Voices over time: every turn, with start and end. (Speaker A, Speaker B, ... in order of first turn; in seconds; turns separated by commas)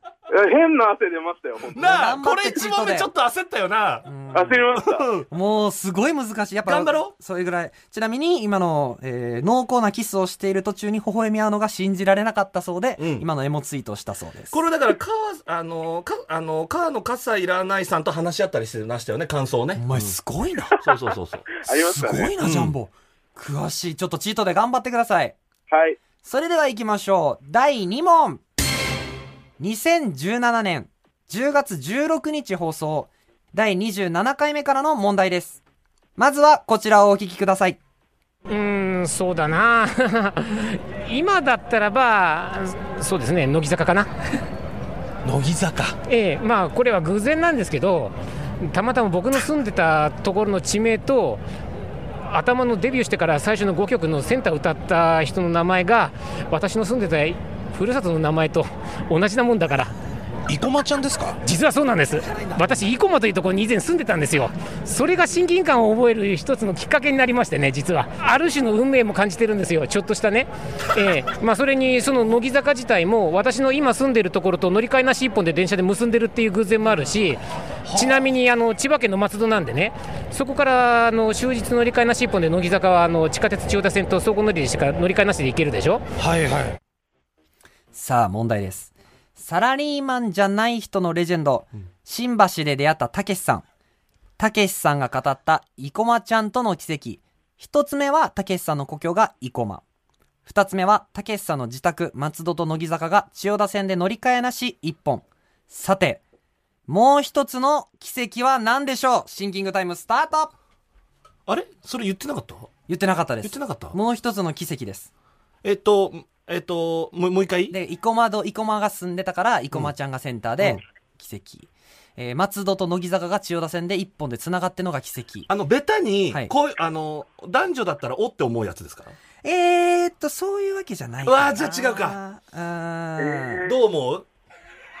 Speaker A: 0.3-2.0, Speaker B: 1.7-4.1, Speaker C: 1.8-3.1, Speaker C: 4.0-4.6, Speaker A: 4.3-5.0, Speaker B: 4.8-5.3, Speaker C: 5.3-14.6, Speaker B: 6.7-7.1, Speaker B: 13.0-13.3, Speaker B: 14.5-20.1, Speaker C: 19.8-20.8, Speaker B: 20.8-21.5, Speaker C: 21.7-25.4, Speaker A: 21.7-22.3, Speaker B: 22.4-22.7, Speaker A: 25.7-26.0, Speaker C: 26.2-28.4, Speaker C: 29.6-35.6, Speaker C: 36.2-37.8, Speaker D: 38.5-44.1, Speaker E: 45.2-45.9, Speaker D: 46.1-51.4, Speaker D: 52.3-59.9, Speaker E: 60.5-61.3, Speaker D: 61.4-86.0, Speaker B: 62.2-62.8, Speaker E: 86.2-86.7, Speaker C: 87.9-93.6, Speaker C: 94.4-99.8, Speaker C: 100.5-106.2, Speaker C: 106.9-110.5, Speaker B: 111.5-112.7, Speaker C: 112.9-115.1, Speaker B: 113.4-114.0, Speaker B: 115.6-117.7, Speaker C: 117.7-125.5, Speaker B: 125.5-129.1, Speaker C: 129.4-133.6, Speaker B: 131.2-132.2, Speaker B: 133.6-134.2